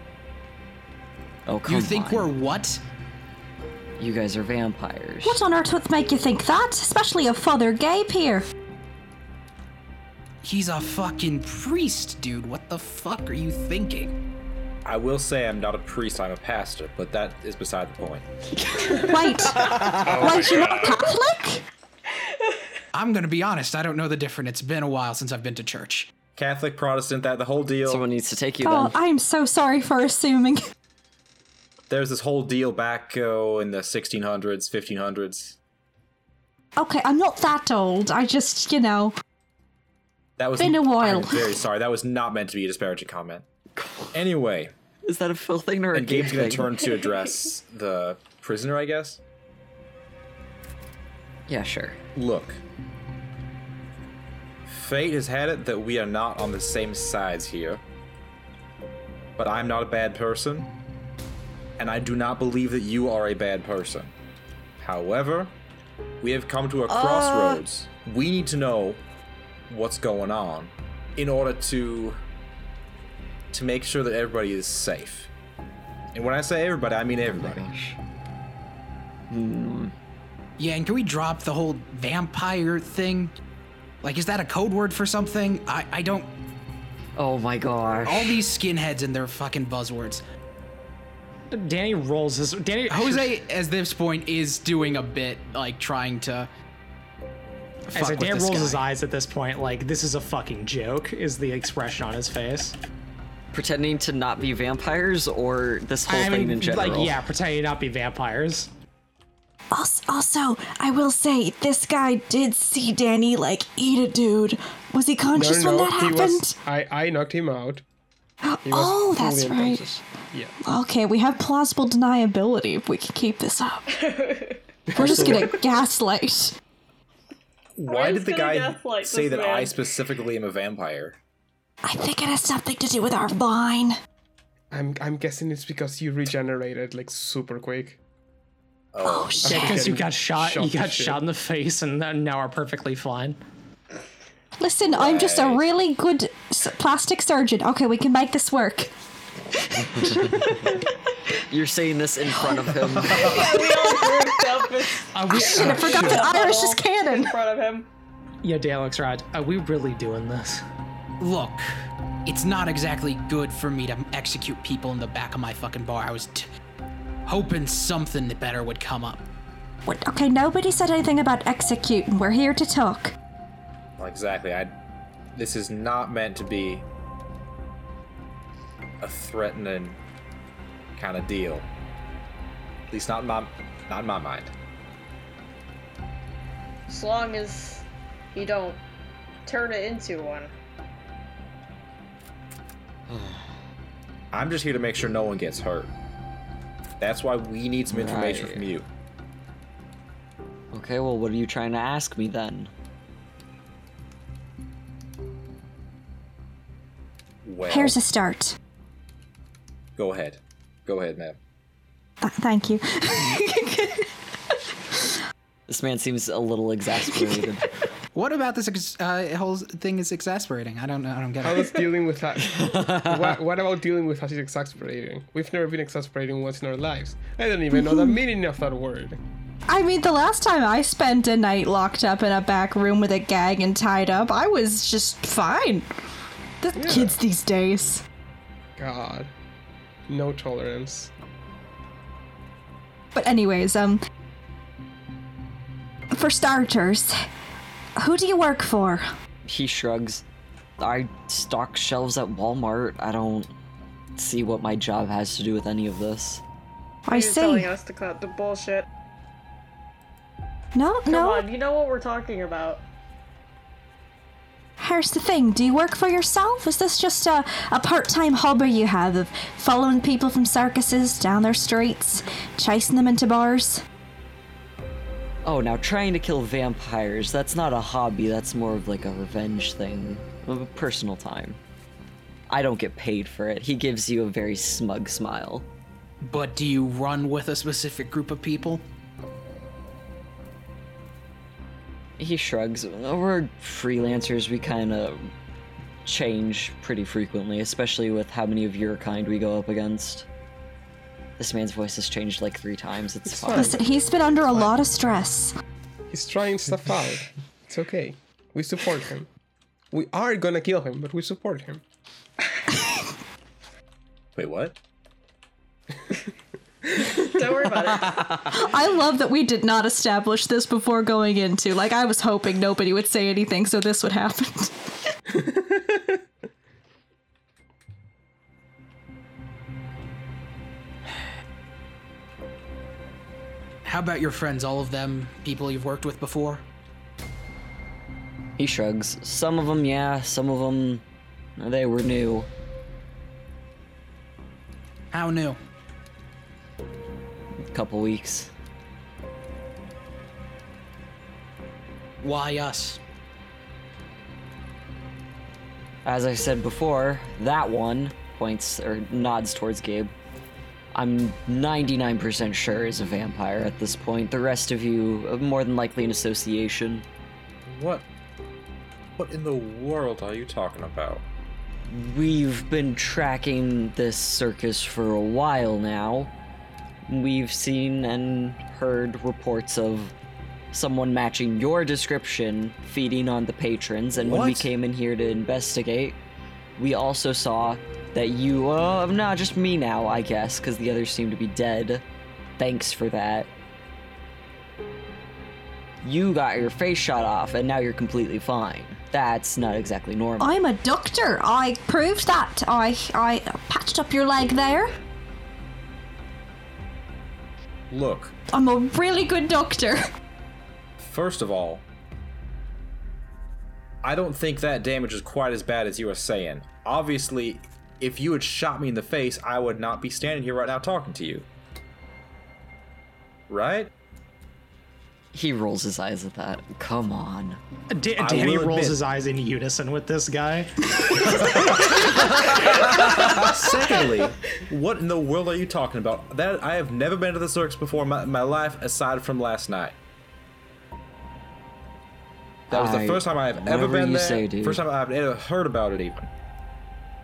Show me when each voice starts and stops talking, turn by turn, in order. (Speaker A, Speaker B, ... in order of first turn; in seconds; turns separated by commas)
Speaker A: 1.5-2.3, Speaker B: 1.7-2.8, Speaker A: 4.0-5.4, Speaker C: 5.2-8.5, Speaker B: 10.4-14.1, Speaker D: 14.8-18.3, Speaker A: 18.8-20.4, Speaker C: 18.9-21.6, Speaker E: 19.9-21.0, Speaker B: 22.9-26.1, Speaker D: 26.4-28.0, Speaker A: 27.9-28.9, Speaker C: 28.6-30.6, Speaker D: 31.9-35.6, Speaker C: 36.8-39.1, Speaker D: 40.4-43.5, Speaker C: 40.6-41.5, Speaker A: 43.8-44.1, Speaker D: 44.1-44.7, Speaker A: 45.1-46.7, Speaker D: 45.9-49.2, Speaker A: 51.5-52.0, Speaker D: 52.2-52.6, Speaker D: 54.7-57.8, Speaker D: 59.4-60.7, Speaker D: 61.8-64.1, Speaker D: 64.8-65.5, Speaker D: 66.2-69.0, Speaker A: 66.9-67.6, Speaker D: 69.7-72.2, Speaker D: 73.5-75.3, Speaker D: 76.1-77.7, Speaker A: 77.4-78.0, Speaker A: 79.3-79.9, Speaker B: 80.6-83.3, Speaker B: 84.0-86.3, Speaker A: 87.2-88.4, Speaker B: 88.0-90.2, Speaker F: 91.5-93.3, Speaker B: 92.9-96.5, Speaker B: 97.9-98.8, Speaker F: 97.9-102.8, Speaker A: 103.5-107.2, Speaker F: 106.1-108.7, Speaker C: 109.7-116.6, Speaker E: 115.3-117.8, Speaker C: 118.4-120.0, Speaker E: 118.7-120.5, Speaker C: 120.7-123.9, Speaker G: 123.9-124.6, Speaker E: 124.9-125.6, Speaker C: 125.0-126.5, Speaker D: 125.0-125.5, Speaker D: 127.8-131.2, Speaker G: 127.8-129.8, Speaker C: 131.8-134.0, Speaker E: 134.7-138.0, Speaker D: 138.9-139.4, Speaker C: 139.0-140.0, Speaker E: 139.4-141.2, Speaker F: 139.5-143.4, Speaker C: 144.6-148.9, Speaker D: 144.9-145.7, Speaker C: 149.5-150.8, Speaker A: 151.4-153.4, Speaker C: 152.4-154.7, Speaker D: 153.0-153.4, Speaker G: 153.2-157.9, Speaker F: 155.1-156.3, Speaker C: 155.3-157.4, Speaker F: 158.4-160.6, Speaker B: 161.2-166.5, Speaker B: 167.3-169.2, Speaker C: 169.9-173.1, Speaker D: 174.0-174.7, Speaker D: 175.3-176.9, Speaker D: 179.0-180.0, Speaker D: 181.0-181.7, Speaker D: 182.9-184.5, Speaker G: 186.9-188.8, Speaker G: 189.5-190.5, Speaker A: 193.1-193.6, Speaker D: 194.3-195.9, Speaker D: 197.0-198.9, Speaker A: 197.9-198.7, Speaker A: 200.7-202.7, Speaker D: 207.4-208.0, Speaker C: 207.7-208.6, Speaker D: 210.0-211.4, Speaker C: 212.2-214.6, Speaker A: 215.7-217.7, Speaker C: 217.1-217.4, Speaker B: 218.2-221.7, Speaker E: 221.4-229.2, Speaker A: 222.5-223.3, Speaker C: 227.7-228.2, Speaker C: 229.7-236.0, Speaker C: 236.6-238.0, Speaker E: 236.8-237.2, Speaker E: 238.8-239.3, Speaker E: 240.1-241.1, Speaker C: 243.1-244.0, Speaker C: 246.1-247.2, Speaker C: 248.0-249.1, Speaker A: 249.5-250.2, Speaker A: 250.8-253.5, Speaker A: 254.2-256.4, Speaker C: 257.1-257.7, Speaker G: 257.1-258.9, Speaker C: 260.8-261.5, Speaker G: 261.1-262.8, Speaker C: 264.8-273.8, Speaker A: 275.4-281.6, Speaker A: 282.5-285.7, Speaker B: 286.2-288.8, Speaker A: 292.2-295.3, Speaker A: 296.1-300.3, Speaker A: 301.4-303.8, Speaker E: 303.2-303.8, Speaker C: 303.5-305.5, Speaker E: 306.1-309.3, Speaker E: 309.9-311.8, Speaker C: 312.7-313.0, Speaker D: 314.4-314.8, Speaker E: 317.0-317.2, Speaker G: 317.1-318.4, Speaker C: 318.5-324.9, Speaker E: 325.4-325.9, Speaker B: 333.8-336.6, Speaker A: 338.6-341.0, Speaker A: 341.6-342.5, Speaker B: 345.1-345.6, Speaker A: 347.7-348.5, Speaker B: 352.2-353.0, Speaker A: 356.1-360.1, Speaker A: 360.9-367.1, Speaker D: 367.6-368.1, Speaker D: 369.2-371.2, Speaker A: 371.9-376.3, Speaker A: 377.1-380.1, Speaker A: 380.7-386.2, Speaker D: 384.1-384.7, Speaker A: 386.8-392.0, Speaker A: 392.6-393.5, Speaker A: 396.0-400.6, Speaker C: 400.4-404.9, Speaker D: 407.9-408.3, Speaker C: 408.5-410.0, Speaker D: 411.0-411.8, Speaker D: 414.0-421.5, Speaker D: 423.5-423.9, Speaker A: 425.3-427.6, Speaker F: 427.9-431.6, Speaker D: 428.2-429.0, Speaker D: 431.2-440.0, Speaker D: 442.7-446.3, Speaker A: 442.7-444.8